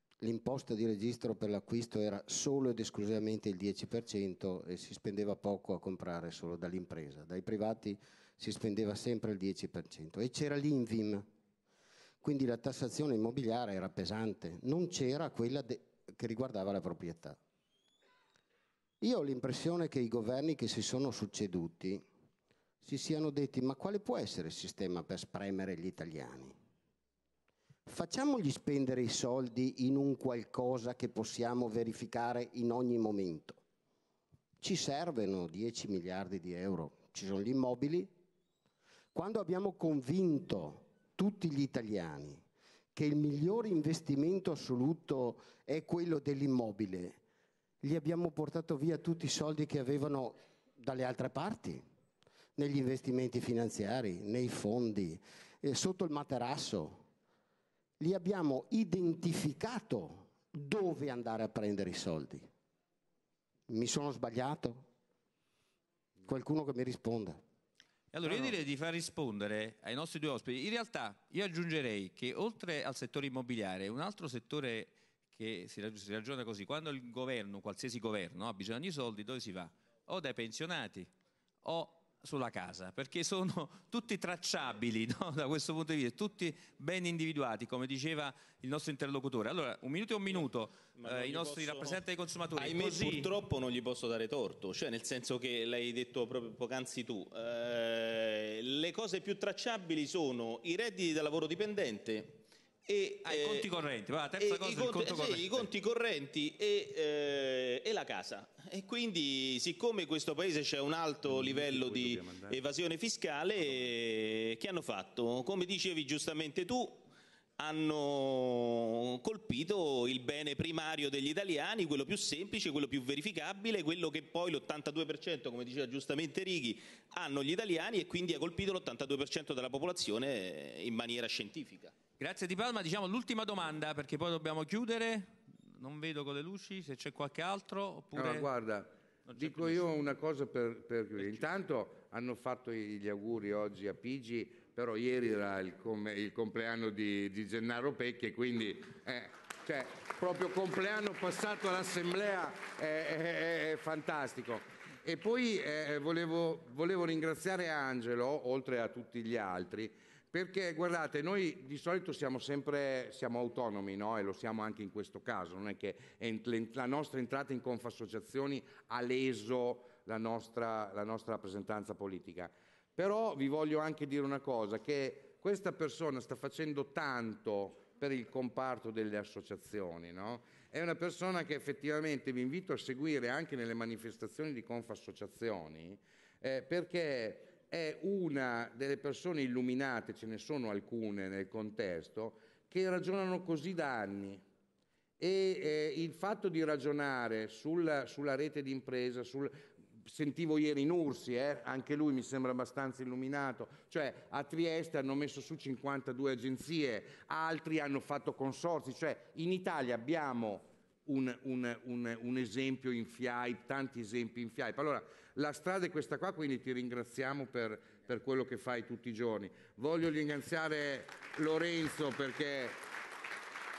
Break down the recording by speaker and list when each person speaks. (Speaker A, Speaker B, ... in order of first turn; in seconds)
Speaker A: 0.2-11.3, 12.2-17.4, 19.0-22.0, 22.8-26.6, 27.9-33.6, 34.6-38.1, 39.1-42.4, 42.9-47.2, 47.8-51.8, 52.5-57.0, 58.0-62.5, 63.7-64.8, 66.2-67.4
Speaker B: 68.1-81.1, 81.6-93.3, 103.2-105.7, 132.2-138.5, 139.3-139.8
Speaker C: 90.3-92.0, 92.5-103.7, 104.4-117.0, 117.6-131.9
Speaker D: 111.3-112.6, 138.1-194.4, 195.2-222.8